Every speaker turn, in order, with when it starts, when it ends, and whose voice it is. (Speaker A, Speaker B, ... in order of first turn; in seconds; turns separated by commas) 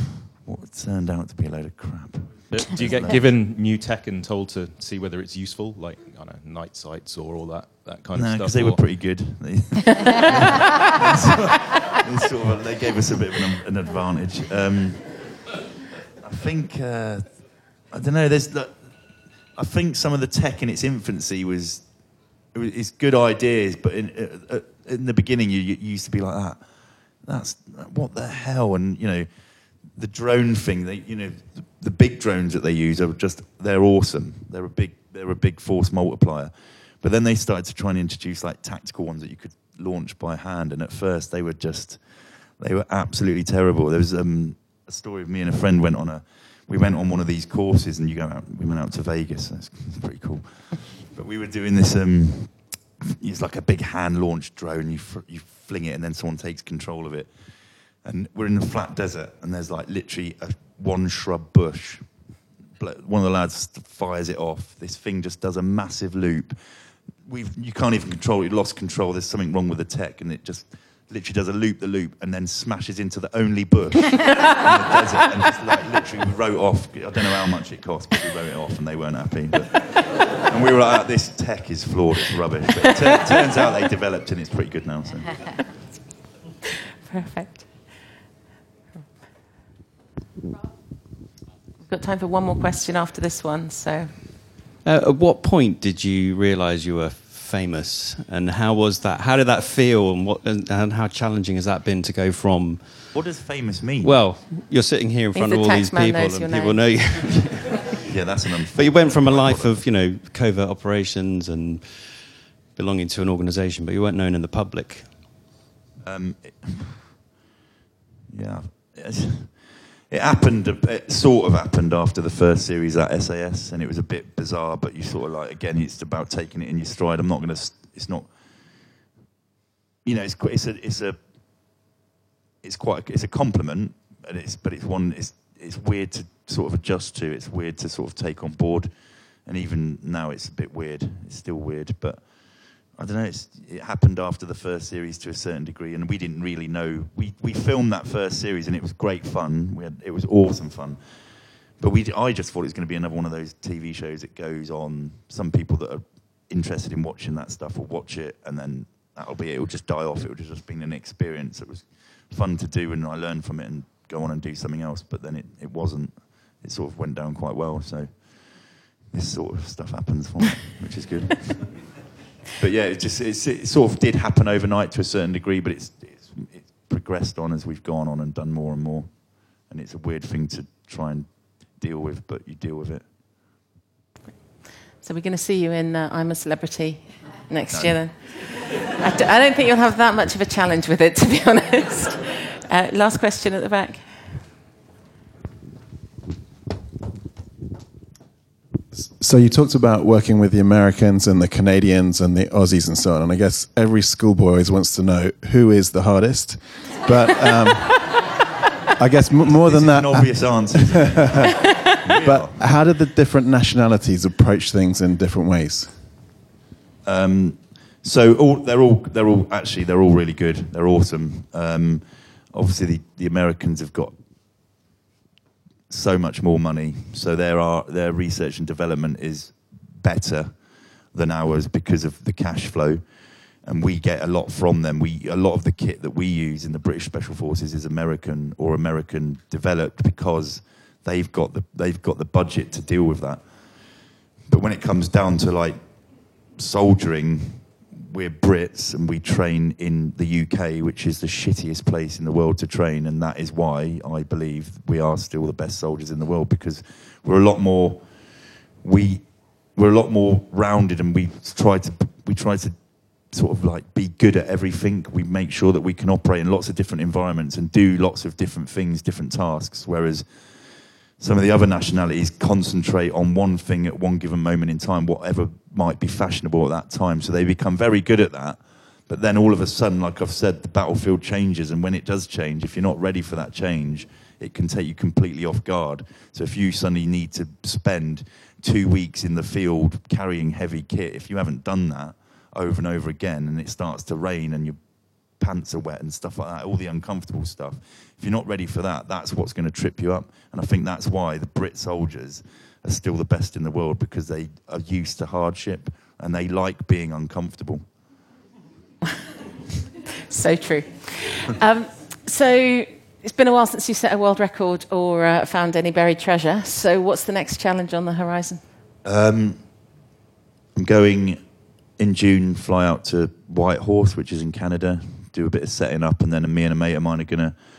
Speaker A: 0.4-3.2, Speaker B: 2.5-9.0, Speaker A: 8.1-15.4, Speaker A: 16.2-26.6, Speaker A: 27.2-29.3, Speaker A: 29.9-42.0, Speaker A: 42.6-57.3, Speaker A: 58.0-62.0, Speaker A: 62.8-66.5, Speaker A: 67.2-85.6, Speaker C: 87.1-87.8, Speaker C: 91.8-94.2, Speaker D: 94.8-103.1, Speaker A: 103.1-104.2, Speaker D: 104.0-107.9, Speaker C: 105.3-106.8, Speaker A: 108.0-109.8, Speaker D: 108.7-112.1, Speaker D: 112.8-115.1, Speaker A: 116.0-117.0, Speaker A: 118.3-128.3, Speaker A: 130.0-131.2, Speaker A: 132.6-138.9, Speaker A: 139.4-151.0, Speaker A: 151.8-172.0, Speaker A: 172.6-183.0, Speaker C: 185.0-194.2, Speaker A: 187.7-188.0, Speaker E: 199.2-208.2, Speaker E: 209.0-211.1, Speaker A: 209.6-211.2, Speaker E: 211.6-216.1, Speaker A: 212.0-212.5, Speaker A: 217.0-224.1, Speaker A: 225.9-233.0, Speaker A: 233.6-258.0, Speaker A: 258.8-262.8, Speaker A: 263.3-270.5, Speaker A: 271.2-294.8, Speaker A: 295.3-307.8, Speaker C: 310.3-318.6, Speaker A: 319.0-319.6, Speaker A: 320.8-321.4, Speaker A: 322.0-327.6